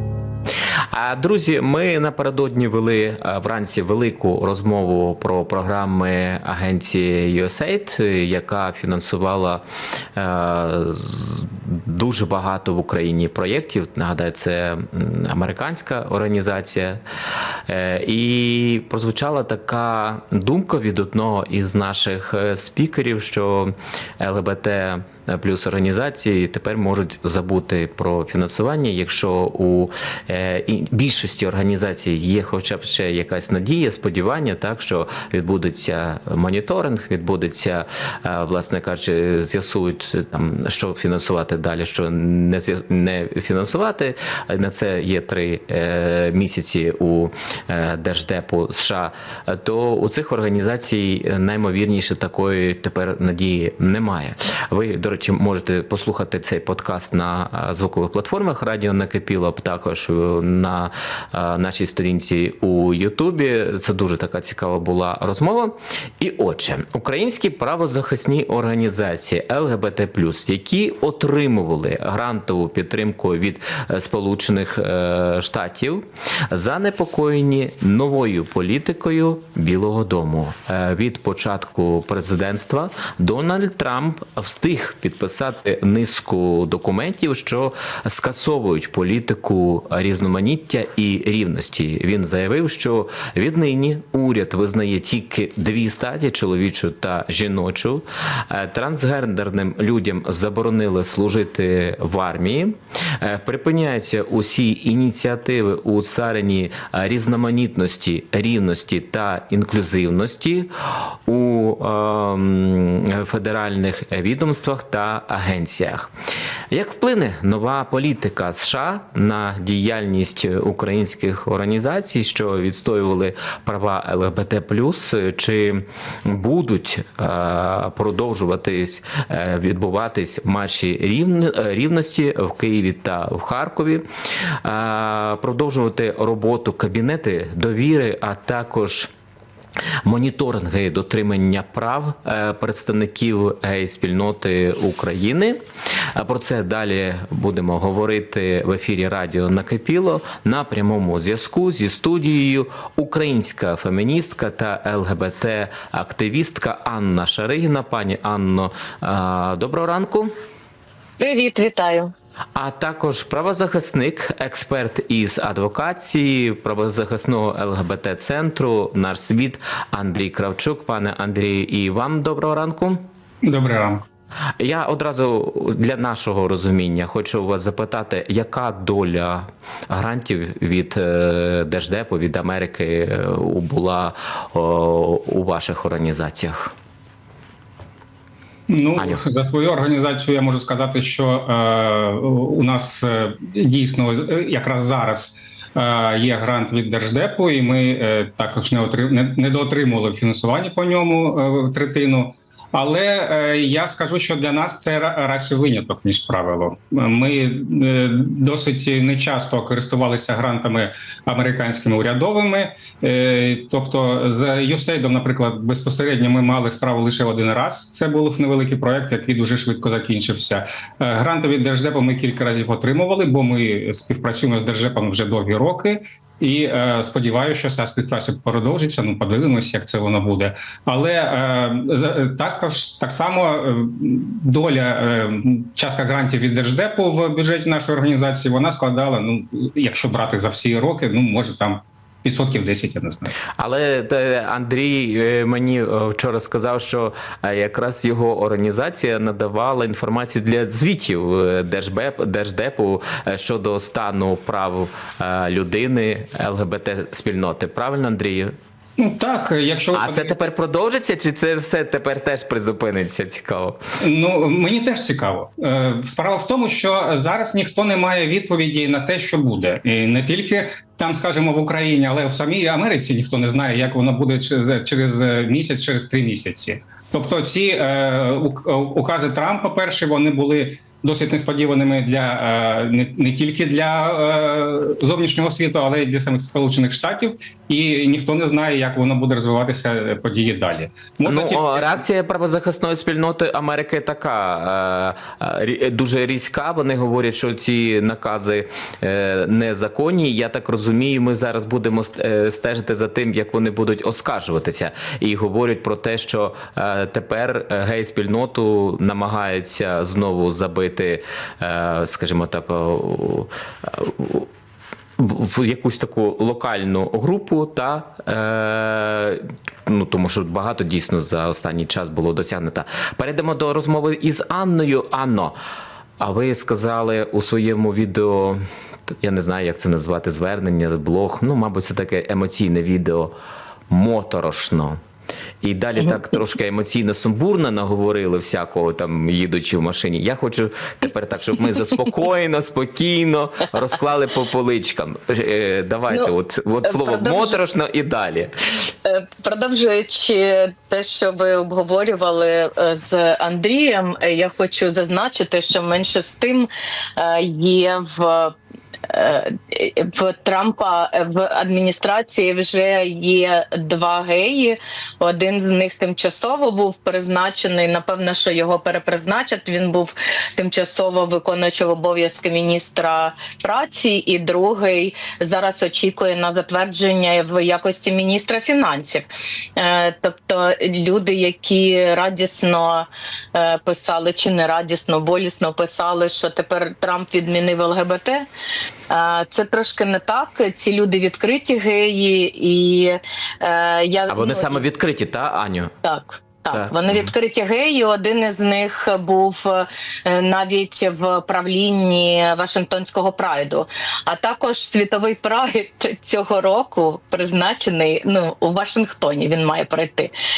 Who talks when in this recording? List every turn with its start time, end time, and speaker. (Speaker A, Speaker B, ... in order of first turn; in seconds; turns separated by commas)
Speaker A: 0.9-9.6, Speaker A: 10.2-17.0, Speaker A: 17.7-110.7, Speaker A: 111.3-116.1, Speaker A: 116.7-139.1, Speaker A: 140.1-145.6, Speaker A: 146.2-160.3, Speaker B: 161.2-162.1, Speaker A: 162.6-173.1, Speaker C: 173.4-174.0, Speaker A: 174.6-186.7, Speaker C: 188.7-243.3, Speaker A: 189.0-189.2, Speaker A: 243.6-258.6, Speaker C: 259.0-260.6, Speaker A: 259.9-263.8, Speaker C: 264.0-292.0, Speaker A: 291.2-314.5, Speaker A: 315.2-325.6, Speaker A: 326.2-328.6, Speaker A: 329.2-333.3, Speaker A: 333.9-335.0, Speaker A: 335.6-348.9, Speaker B: 346.9-347.6, Speaker B: 349.1-358.6, Speaker B: 359.1-388.5, Speaker B: 389.1-394.8, Speaker A: 394.3-395.9, Speaker B: 396.0-410.3, Speaker A: 396.7-397.3